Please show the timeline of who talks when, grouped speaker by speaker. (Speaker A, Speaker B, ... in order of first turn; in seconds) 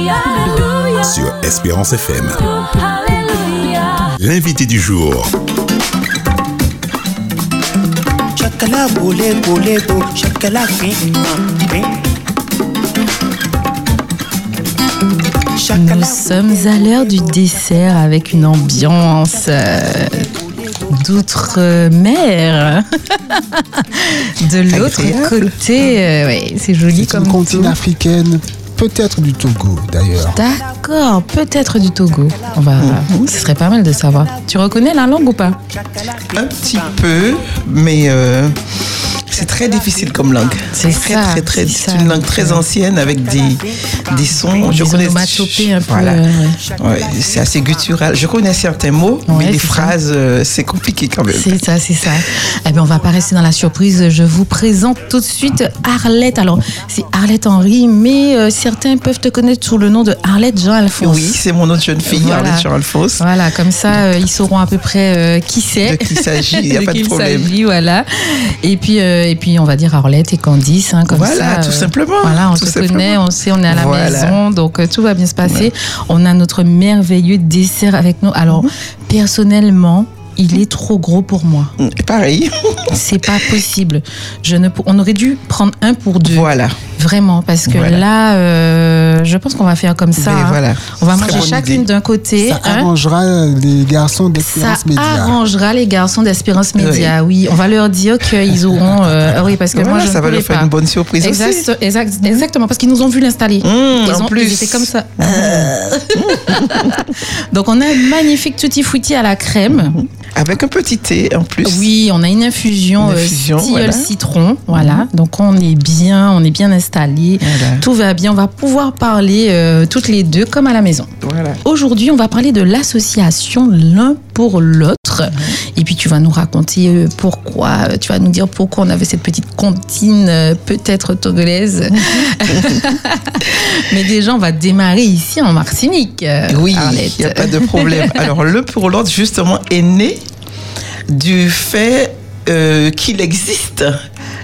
Speaker A: 0.3-5.3
Speaker B: 8.4-11.9, 15.6-16.4
Speaker C: 15.7-20.3, 20.9-27.8, 30.3-35.6, 40.7-42.6, 44.6-46.6, 49.3-49.9, 51.3-61.4, 62.0-62.6, 63.2-81.7, 82.9-92.9, 94.4-100.7, 101.2-110.0, 111.6-121.1, 121.6-138.3
Speaker D: 24.7-25.4, 32.8-33.3, 36.3-38.6, 39.3-46.2, 46.8-51.5, 61.0-63.2, 65.8-67.5, 71.1-74.4, 81.8-83.6, 86.2-86.8, 87.7-88.0, 90.2-91.8, 96.8-97.1, 98.5-99.0, 99.7-101.7, 103.6-107.1, 109.8-111.9, 113.0-114.1, 114.7-115.1, 117.4-117.8, 121.2-121.6, 132.0-132.8, 136.5-140.2, 141.1-144.0
Speaker E: 26.9-30.4, 92.4-95.4